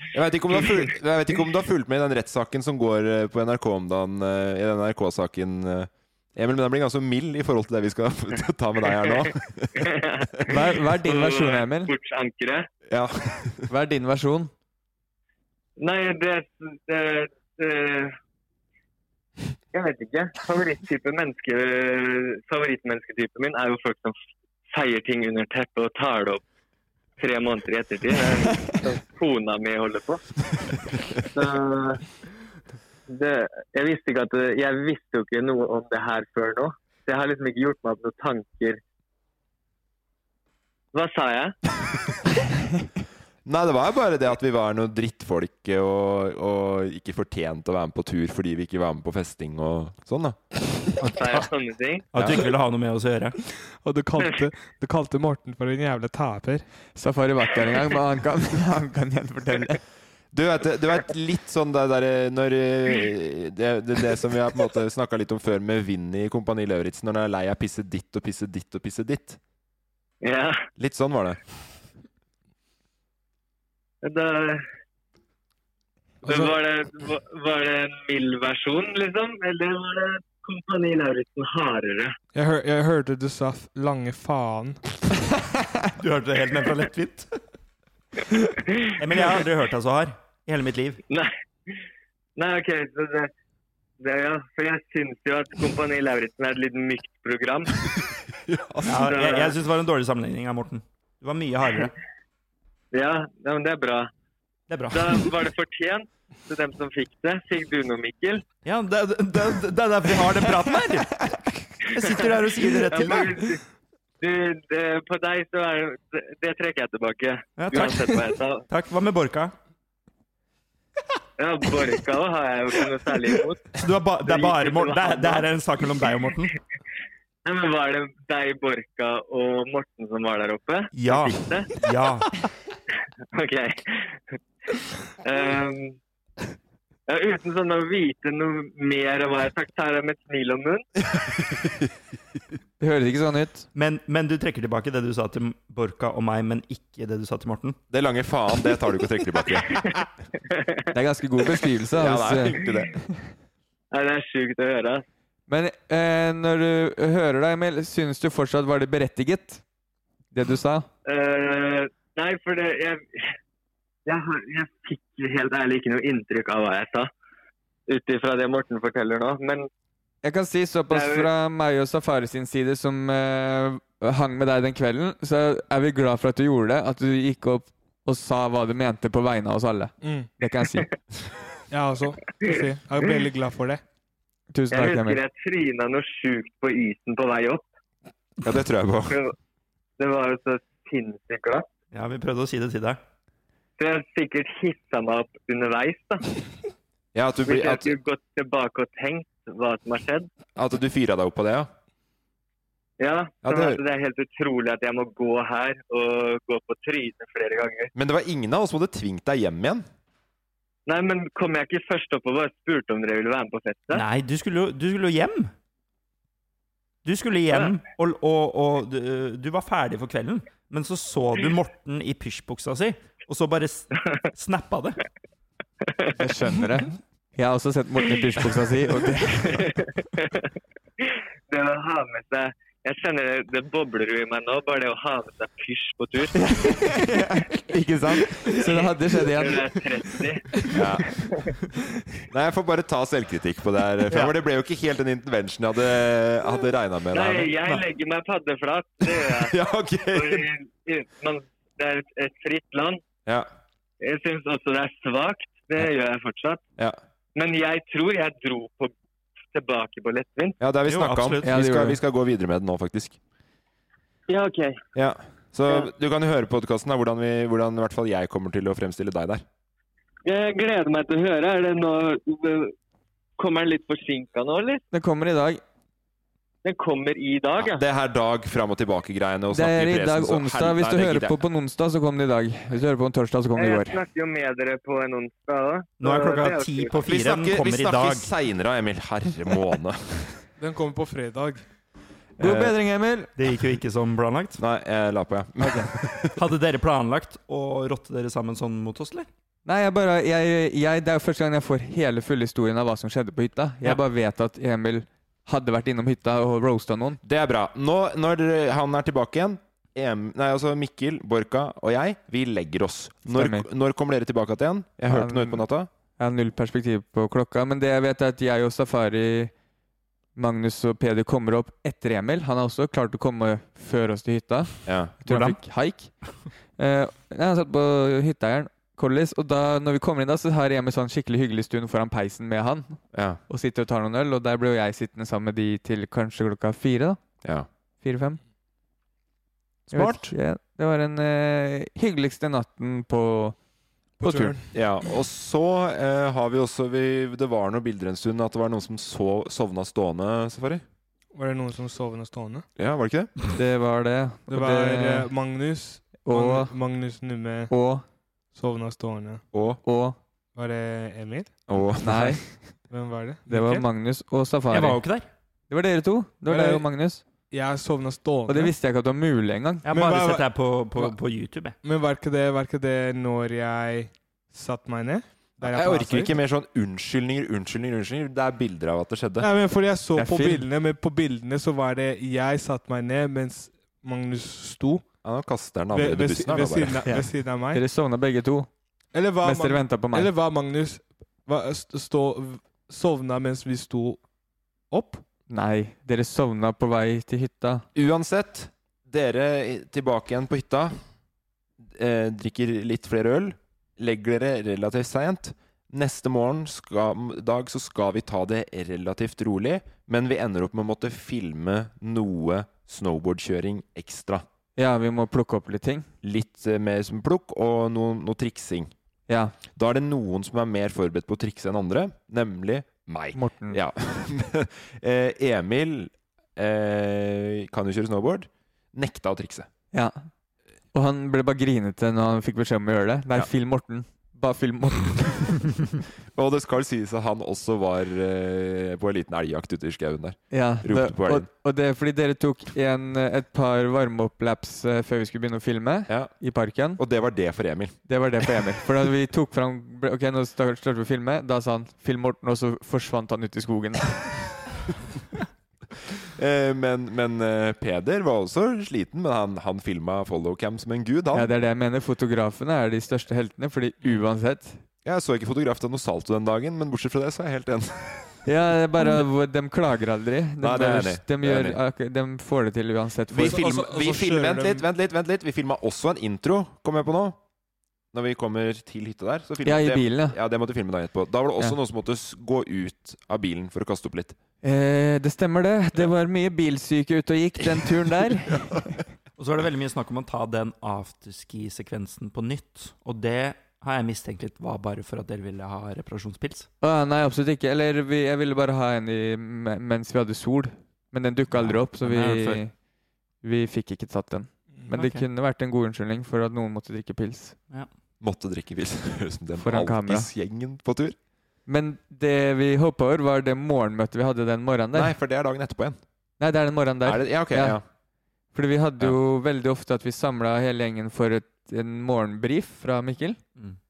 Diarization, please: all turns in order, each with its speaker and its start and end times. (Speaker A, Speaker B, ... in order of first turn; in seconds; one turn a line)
Speaker A: 0.1-10.5
Speaker B: 9.8-12.7
Speaker C: 10.5-11.9
Speaker A: 12.9-13.7
Speaker C: 13.7-14.5
Speaker B: 15.8-18.2
Speaker B: 19.7-24.2
Speaker B: 24.7-26.4
Speaker B: 27.2-30.2
Speaker B: 31.3-32.0
Speaker B: 33.1-38.8
Speaker B: 40.9-41.6
Speaker A: 43.5-51.1
Speaker B: 51.0-52.1
Speaker D: 52.1-53.4
Speaker A: 52.1-52.5
Speaker E: 53.8-56.7
Speaker C: 57.0-59.8
Speaker A: 60.3-69.4
Speaker B: 70.2-70.7
Speaker A: 70.8-71.4
Speaker B: 74.0-74.7
Speaker B: 76.2-82.2
Speaker E: 76.2-76.5
Speaker E: 82.3-84.8
Speaker D: 86.0-87.4
Speaker B: 88.7-88.9
Speaker D: 89.0-91.0
Speaker B: 91.1-91.7
Speaker B: 92.4-93.3
Speaker B: 94.0-97.7
Speaker A: 98.4-99.1
Speaker D: 98.8-101.9
Speaker B: 99.0-99.5
Speaker B: 102.9-104.1
Speaker D: 104.7-105.3
Speaker B: 104.9-108.4
Speaker D: 108.7-113.6
Speaker B: 112.0-113.6
Speaker B: 114.2-118.7
Speaker D: 117.6-119.5
Speaker B: 121.4-123.7
Speaker D: 123.7-126.5
Speaker B: 124.2-125.5
Speaker B: 127.5-131.7
Speaker D: 130.9-132.4
Speaker B: 133.3-134.4
Speaker B: 135.2-136.0
Speaker B: 137.1-140.9
Speaker A: 141.2-141.9
Speaker C: 142.8-143.7
Speaker D: 143.8-147.8
Speaker A: 147.9-150.1
Speaker C: 150.9-153.3
Speaker A: 151.9-153.0
Speaker B: 153.9-155.0
Speaker C: 155.5-159.6
Speaker C: 160.3-160.9
Speaker B: 161.1-163.3
Speaker B: 164.1-167.1
Speaker B: 167.9-169.7
Speaker C: 170.2-180.9
Speaker B: 170.9-171.3
Speaker E: 180.0-180.3
Speaker E: 181.7-183.8
Speaker C: 184.5-185.2
Speaker B: 184.7-187.7
Speaker A: 188.4-189.2
Speaker B: 189.1-189.3
Speaker B: 190.0-191.7
Speaker D: 191.9-193.0
Speaker B: 193.8-196.3
Speaker A: 197.1-197.9
Speaker B: 197.5-200.3
Speaker A: 200.6-201.7
Speaker B: 203.0-207.9
Speaker A: 203.4-203.8
Speaker A: 207.9-209.9
Speaker B: 210.9-214.1
Speaker D: 213.9-215.5
Speaker D: 217.1-225.0
Speaker C: 226.2-229.8
Speaker B: 229.5-236.3
Speaker C: 236.4-237.5
Speaker A: 236.9-238.6
Speaker C: 238.4-239.6
Speaker B: 238.6-240.5
Speaker A: 240.7-241.2
Speaker B: 241.2-241.5
Speaker A: 242.3-247.8
Speaker B: 247.1-249.6
Speaker A: 249.0-250.5
Speaker B: 250.1-253.0
Speaker B: 254.0-256.6
Speaker B: 257.4-258.9
Speaker B: 259.5-260.6
Speaker A: 260.6-263.2
Speaker D: 260.9-261.5
Speaker C: 261.4-262.0
Speaker B: 264.3-264.8
Speaker A: 264.9-269.4
Speaker B: 270.2-272.8
Speaker B: 273.4-274.8
Speaker C: 274.9-275.6
Speaker B: 276.6-277.8
Speaker A: 277.6-281.4
Speaker C: 279.5-284.0
Speaker B: 283.6-287.0
Speaker D: 286.0-288.3
Speaker A: 287.0-290.4
Speaker E: 290.6-291.6
Speaker A: 292.4-292.8
Speaker C: 292.4-293.3
Speaker D: 293.4-294.6
Speaker A: 294.6-296.4
Speaker D: 296.4-299.3
Speaker C: 299.7-307.2
Speaker A: 307.2-315.9
Speaker C: 313.3-313.7
Speaker C: 315.1-315.7
Speaker C: 316.2-319.5
Speaker C: 320.4-326.1
Speaker A: 324.9-325.2
Speaker C: 326.8-337.2
Speaker A: 333.1-333.4
Speaker C: 338.0-338.4
Speaker A: 339.9-340.3
Speaker C: 339.9-343.6
Speaker E: 344.2-344.7
Speaker C: 344.2-344.6
Speaker A: 344.7-350.8
Speaker E: 351.3-352.7
Speaker A: 352.8-353.4
Speaker C: 353.5-355.3
Speaker E: 354.5-357.7
Speaker C: 356.2-356.7
Speaker C: 357.7-358.0
Speaker E: 358.5-359.4
Speaker A: 359.5-359.8
Speaker C: 359.8-360.2
Speaker E: 360.6-361.5
Speaker A: 361.7-362.6
Speaker C: 362.0-362.7
Speaker E: 362.9-363.9
Speaker C: 363.5-365.0
Speaker D: 364.7-365.3
Speaker C: 365.7-367.2
Speaker E: 366.5-366.9
Speaker E: 367.5-368.7
Speaker C: 368.5-369.9
Speaker D: 369.8-371.8
Speaker E: 369.9-370.5
Speaker E: 371.8-376.3
Speaker A: 375.6-379.5
Speaker E: 379.4-385.1
Speaker C: 380.1-380.7
Speaker A: 385.2-387.1
Speaker E: 385.9-387.8
Speaker C: 387.1-388.7
Speaker E: 389.1-394.2
Speaker C: 389.4-390.3
Speaker E: 394.9-395.2
Speaker C: 395.5-397.9
Speaker A: 397.9-401.0
Speaker A: 401.8-414.4
Speaker C: 414.8-416.1
Speaker A: 416.2-418.9
Speaker C: 419.3-419.6
Speaker A: 419.7-429.7
Speaker C: 423.4-423.8
Speaker C: 429.9-430.3
Speaker C: 430.9-435.7
Speaker A: 436.3-441.5
Speaker C: 440.5-447.0
Speaker A: 446.1-446.4
Speaker A: 446.9-448.0
Speaker C: 448.1-454.5
Speaker A: 456.2-461.5
Speaker C: 461.3-464.8
Speaker A: 465.1-468.4
Speaker C: 468.5-473.6
Speaker A: 470.6-471.8
Speaker A: 473.3-477.4
Speaker E: 473.4-474.9
Speaker A: 478.1-484.4
Speaker C: 479.6-480.4
Speaker C: 484.6-488.9
Speaker D: 489.4-496.7
Speaker C: 496.8-502.7
Speaker D: 501.5-502.6
Speaker C: 503.4-507.6
Speaker D: 504.9-505.2
Speaker A: 508.2-511.2
Speaker C: 509.6-510.3
Speaker C: 511.7-515.1
Speaker A: 514.9-516.0
Speaker C: 516.4-517.8
Speaker A: 517.0-517.9
Speaker C: 518.5-523.4